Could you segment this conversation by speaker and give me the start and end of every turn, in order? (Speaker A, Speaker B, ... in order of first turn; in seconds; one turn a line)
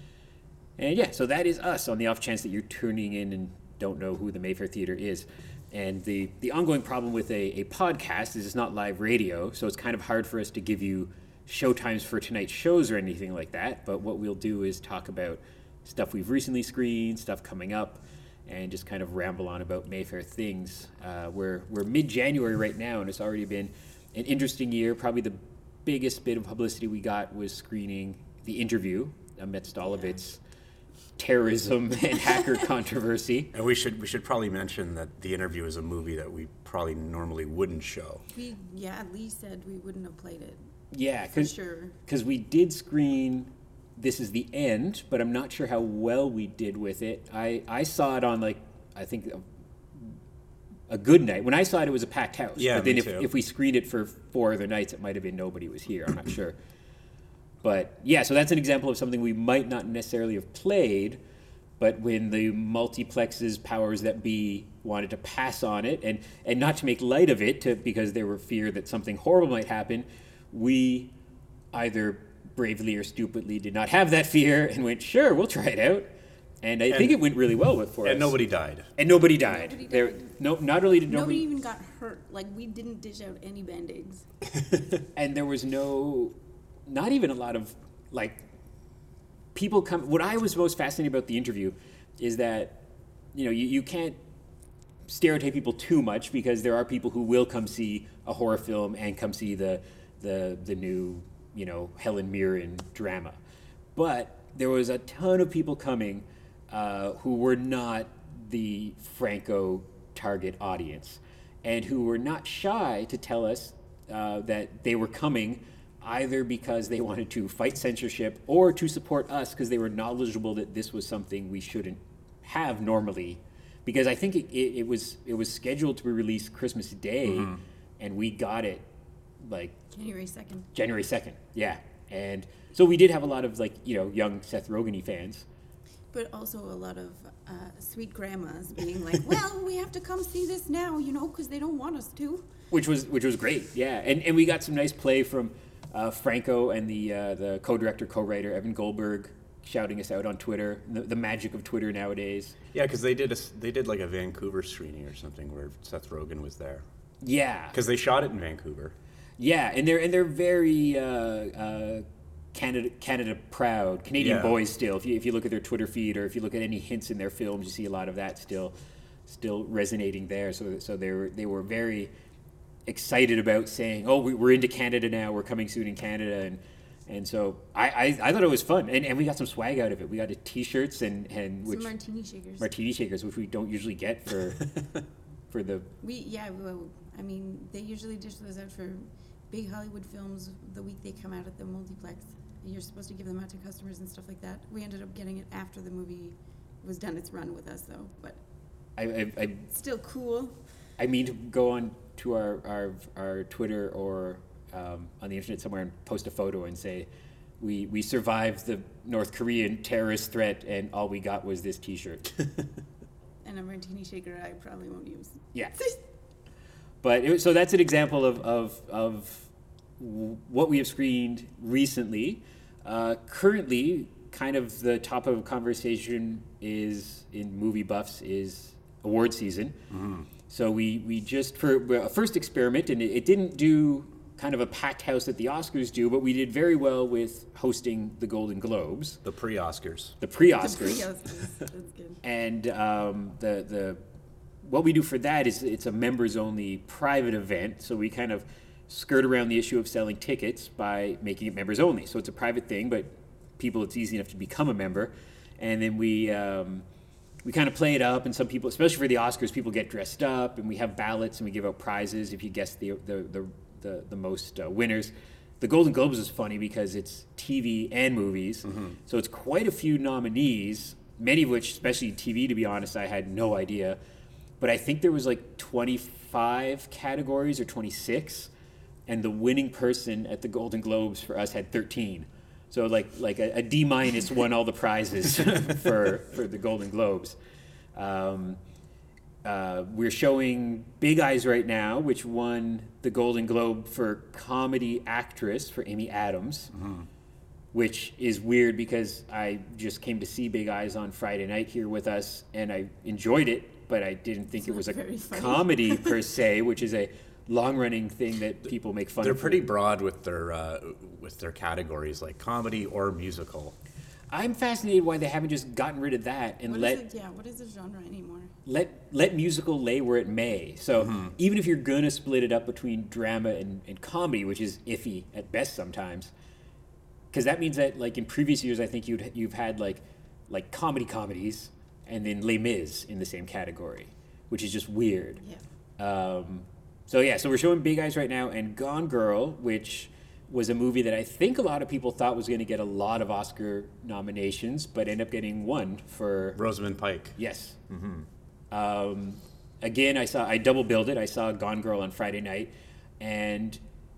Speaker A: 0.8-30.4
Speaker A: 31.2-33.5
Speaker B: 33.5-38.2
Speaker C: 38.3-40.6
Speaker A: 40.9-41.5
Speaker C: 41.4-42.0
Speaker A: 42.1-50.2
Speaker A: 50.9-56.6
Speaker B: 52.6-53.3
Speaker A: 57.6-61.2
Speaker A: 61.8-71.1
Speaker A: 71.7-78.4
Speaker B: 76.9-77.2
Speaker B: 78.0-78.9
Speaker A: 79.0-81.5
Speaker C: 79.5-80.3
Speaker C: 81.1-84.3
Speaker A: 85.2-86.3
Speaker A: 86.9-88.4
Speaker A: 89.5-92.8
Speaker A: 93.3-94.2
Speaker A: 95.1-103.4
Speaker A: 104.0-128.8
Speaker A: 129.4-129.8
Speaker C: 129.9-130.7
Speaker A: 130.7-135.5
Speaker C: 136.1-142.5
Speaker A: 142.7-152.6
Speaker B: 152.7-156.8
Speaker A: 157.2-157.8
Speaker B: 157.7-158.9
Speaker A: 159.4-168.7
Speaker B: 164.2-164.6
Speaker A: 169.3-172.1
Speaker A: 172.9-181.9
Speaker C: 181.7-182.7
Speaker A: 182.6-184.7
Speaker A: 185.5-185.9
Speaker C: 186.0-198.4
Speaker A: 199.0-199.7
Speaker C: 199.7-200.6
Speaker A: 201.0-207.1
Speaker A: 207.6-212.3
Speaker C: 213.4-216.0
Speaker A: 215.5-215.8
Speaker A: 217.0-229.8
Speaker B: 229.9-230.3
Speaker A: 230.5-239.2
Speaker B: 239.2-240.2
Speaker A: 240.2-241.1
Speaker C: 240.5-242.2
Speaker A: 242.2-244.0
Speaker A: 244.6-256.9
Speaker A: 257.4-274.0
Speaker B: 268.7-269.0
Speaker A: 274.6-278.5
Speaker A: 279.1-287.4
Speaker A: 287.9-288.6
Speaker A: 289.4-296.7
Speaker B: 296.8-297.1
Speaker A: 297.7-309.7
Speaker C: 304.6-306.2
Speaker B: 309.2-313.8
Speaker A: 314.3-317.0
Speaker C: 316.7-318.5
Speaker A: 318.7-326.3
Speaker A: 327.3-335.4
Speaker A: 336.0-346.6
Speaker B: 346.6-347.4
Speaker A: 347.4-347.8
Speaker B: 347.9-348.3
Speaker A: 348.7-353.8